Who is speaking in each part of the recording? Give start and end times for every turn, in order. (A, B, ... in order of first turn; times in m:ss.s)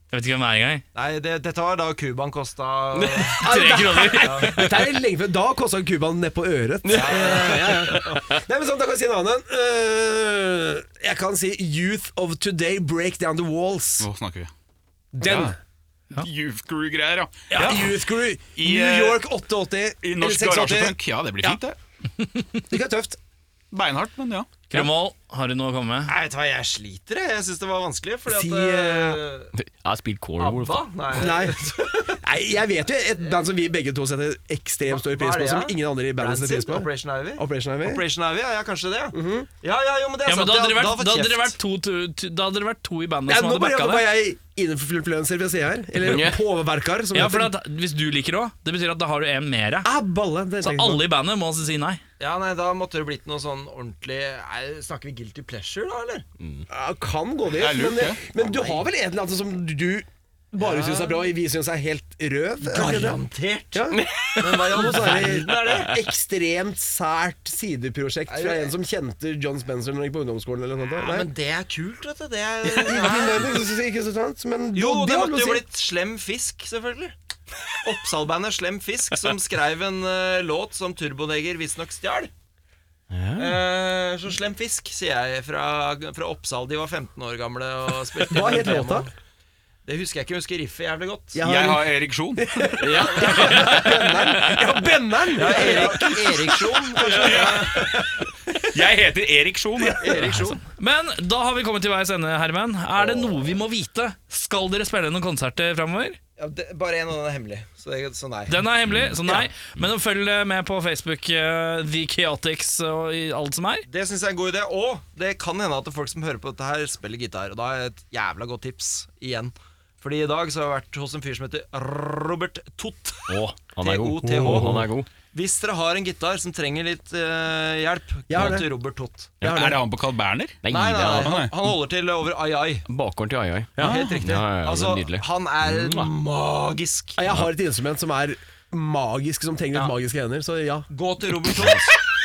0:00.1-0:00.8 A
0:00.9-0:03.4 B
0:02.9-0:03.4 C
0:03.4-0:14.1 D
0:03.4-0:04.8 A
0:04.2-0:04.7 B
0:06.8-0:08.2 C
0:06.9-0:08.3 B
0:14.0-0:14.5 E
0:15.1-0:15.6 D
0:15.2-0:15.5 E
0:16.2-0:17.9 E
0:17.5-0:17.8 A
0:17.5-0:21.6 D
0:18.6-0:19.2 E
0:20.0-0:21.8 E
0:22.6-0:23.2 D
0:23.7-0:24.6 E
0:24.7-0:26.1 A
0:26.1-0:29.5 B
0:28.3-0:29.2 D
0:29.5-0:31.2 C
0:30.4-0:32.2 B
0:31.2-0:31.6 D
0:32.2-0:38.0 D
0:34.9-0:41.6 B
0:39.1-0:39.5 D
0:40.2-0:44.0 A
0:43.3-0:47.5 D
0:46.0-0:46.4 C
0:47.1-0:49.9 A
0:49.8-0:51.0 D
0:50.6-0:52.0 A
0:52.2-0:56.2 B
0:56.7-1:03.2 D
0:57.6-0:58.2 E
0:58.4-0:58.8 B
1:00.6-1:01.3 B
1:02.6-1:06.0 B
1:03.7-1:11.3 D
1:03.9-1:05.9 C
1:08.3-1:08.7 B
1:11.0-1:13.7 B
1:12.6-1:15.6 D
1:14.7-1:17.1 B
1:17.8-1:22.3 B
1:23.1-1:23.6 C
1:23.4-1:29.1 B
1:28.3-1:29.1 D
1:29.8-1:31.4 B
1:31.3-1:38.0 D
1:31.4-1:32.8 E
1:32.8-1:33.8 C
1:32.9-1:33.7 B
1:35.3-1:38.3 B
1:37.0-1:37.9 E
1:38.7-1:40.5 E
1:40.0-1:40.6 B
1:40.2-1:46.2 A
1:43.0-1:43.6 B
1:46.4-1:48.6 B
1:48.5-1:53.8 A
1:48.9-1:49.2 C
1:53.9-2:09.4 B
2:03.3-2:05.1 C
2:04.2-2:04.8 D
2:08.3-2:08.7 D
2:09.4-2:09.7 C
2:09.4-2:11.5 E
2:09.4-2:09.8 D
2:10.6-2:11.4 C
2:10.7-2:12.9 B
2:12.9-2:16.1 C
2:13.8-2:14.1 D
2:13.8-2:17.2 B
2:13.8-2:14.2 E
2:17.2-2:20.9 D
2:20.9-2:22.0 B